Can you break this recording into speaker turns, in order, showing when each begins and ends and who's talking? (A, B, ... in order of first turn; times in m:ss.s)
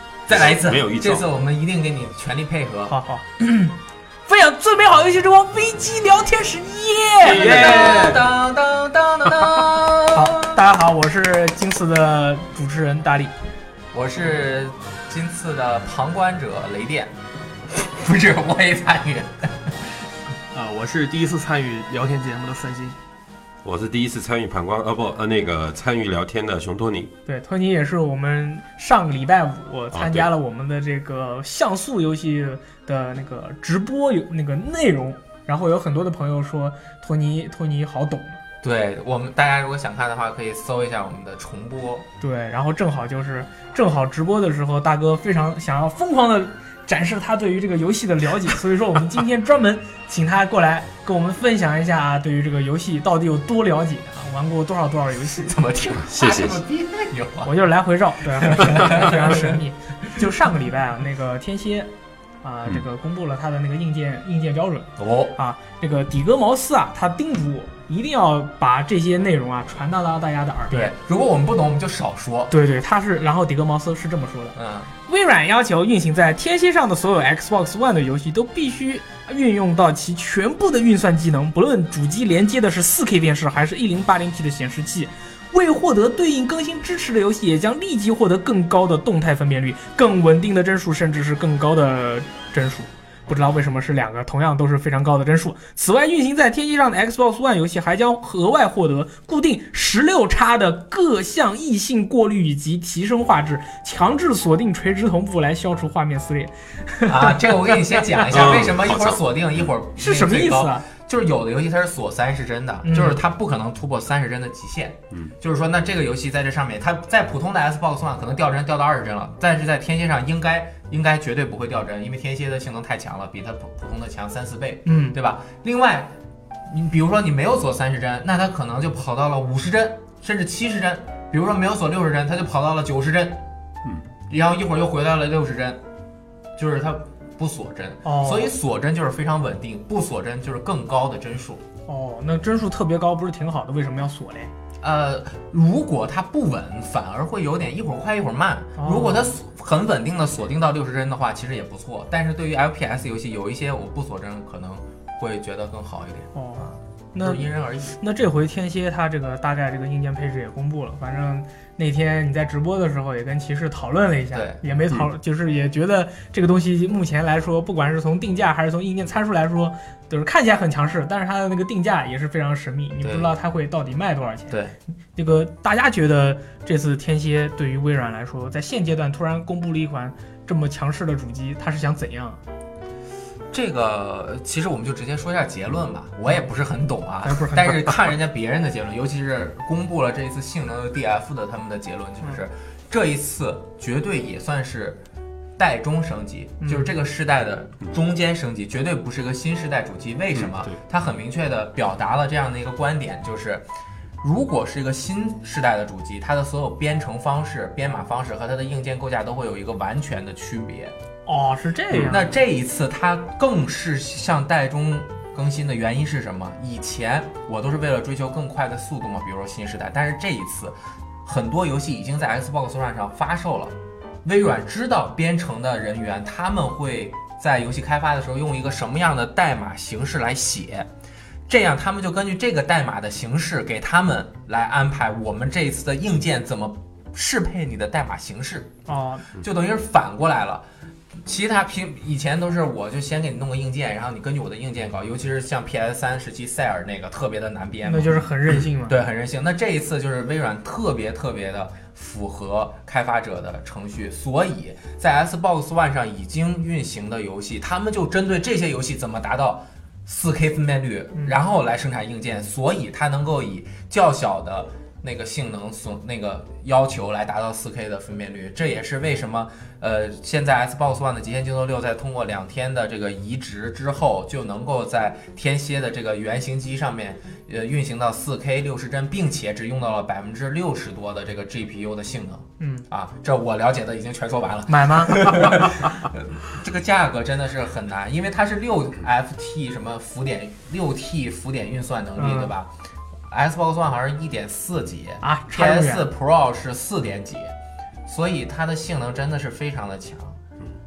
0:00.3-0:03.0 A
0:00.3-0:01.3 B
0:02.9-0:03.8 C
0:04.3-0:07.6 C
0:07.2-0:08.3 D
0:07.2-0:10.6 A
0:10.1-0:13.3 C
0:13.9-0:17.1 A
0:17.7-0:19.8 A
0:20.5-0:23.0 D
0:23.6-0:27.1 B
0:27.3-0:38.4 C
0:29.9-0:30.3 B
0:38.6-0:42.1 A
0:42.2-0:55.6 C
0:55.3-0:57.7 A
0:56.0-0:56.6 B
0:57.4-1:01.9 C
0:58.3-0:59.6 A
1:02.4-1:10.9 C
1:05.0-1:05.3 A
1:10.7-1:12.5 A
1:12.5-1:14.6 C
1:14.6-1:14.9 A
1:15.1-1:48.4 C
1:47.1-2:06.1 A
1:48.3-1:49.2 B
1:50.0-1:50.8 C
1:52.8-1:53.2 C
2:04.9-2:05.2 C
2:06.7-2:13.4 A
2:14.3-2:15.8 A
2:16.6-2:21.6 A
2:18.0-2:18.5 C
2:21.9-2:24.5 C
2:24.8-2:38.0 A
2:28.8-2:29.4 C
2:36.4-2:54.6 C
2:44.3-2:44.6 A
2:53.0-2:53.3 A
2:54.5-2:54.8 A
2:55.2-3:02.4 C
3:03.5-3:15.0 A
3:07.2-3:07.9 C
3:15.6-3:23.6 A
3:16.6-3:16.9 C
3:20.4-3:20.8 B
3:24.2-3:30.9 A
3:31.3-3:32.4 C
3:31.9-3:32.2 B
3:32.0-3:50.9 A
3:51.5-3:58.7 A
3:58.9-3:59.2 C
3:59.4-4:00.6 A
4:01.2-4:52.7 A
4:07.8-4:09.0 C
4:42.6-4:42.9 C
4:44.7-4:45.4 C
4:52.2-4:52.5 C
4:53.3-4:57.5 A
4:55.2-4:56.1 C
4:58.1-5:00.4 A